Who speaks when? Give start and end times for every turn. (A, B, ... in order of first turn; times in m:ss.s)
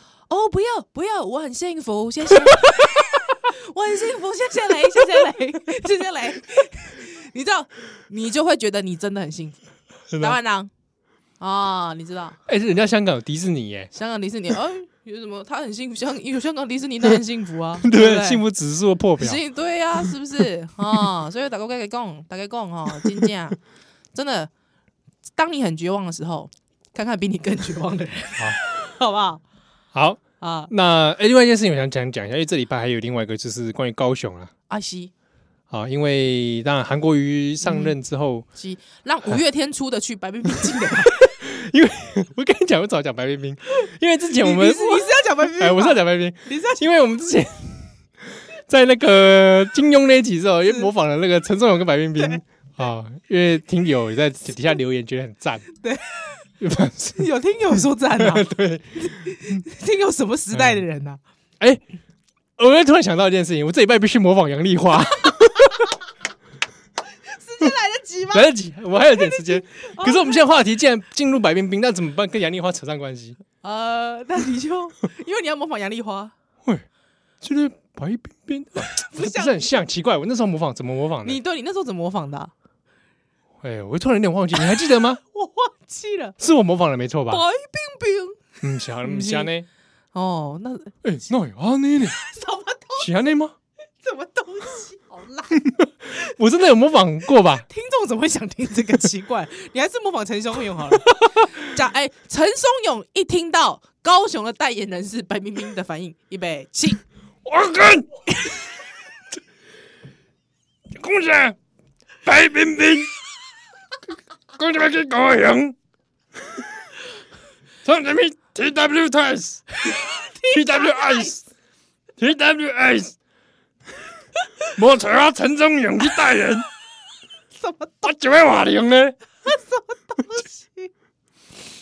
0:00.3-0:09.6 A
0:10.1-0:10.4 B
0:10.2-0:10.7 A
0:11.4-0:12.4 A
0:12.5-0:13.9 B
0:13.9-0:18.4 A
0:17.8-0:19.4 B
0:19.2-0:23.6 A
0:22.9-0:23.3 B
0:24.1-0:24.5 A
0:25.4-0:29.4 A
0:29.9-0:34.5 B
0:30.4-0:30.7 A
0:34.7-0:35.1 A
0:35.7-0:38.4 B
0:37.6-0:38.0 A
0:38.6-0:41.4 A
0:40.4-0:47.9 B
0:44.4-0:46.9 A
0:48.7-0:55.7 B
0:50.6-0:50.9 A
0:52.2-0:52.4 A
0:55.8-0:56.4 A
0:56.6-0:59.6 B
0:57.2-1:01.2 A
1:00.5-1:00.8 B
1:02.6-1:05.9 B
1:07.1-1:10.5 A
1:08.3-1:13.4 B
1:13.6-1:16.3 A
1:17.4-1:21.4 B
1:18.8-1:19.8 A
1:21.2-1:22.5 A
1:23.6-1:25.2 B
1:24.5-1:26.4 A
1:26.4-1:27.4 B
1:27.3-1:29.5 A
1:28.6-1:29.7 B
1:30.1-1:31.0 A
1:31.0-1:32.2 B
1:32.0-1:33.1 A
1:33.0-1:33.6 B
1:34.0-1:35.6 A
1:35.5-1:37.7 B
1:37.7-1:47.0 A
1:47.4-1:48.2 B
1:51.0-1:51.6 B
1:52.2-1:53.1 B
1:54.5-1:55.8 B
1:57.8-1:59.7 B
1:59.7-2:01.3 A
2:00.5-2:01.4 B
2:02.2-2:03.1 B
2:04.7-2:06.7 B
2:06.1-2:06.4 A
2:07.6-2:08.0 A
2:08.0-2:09.2 B
2:09.4-2:10.9 A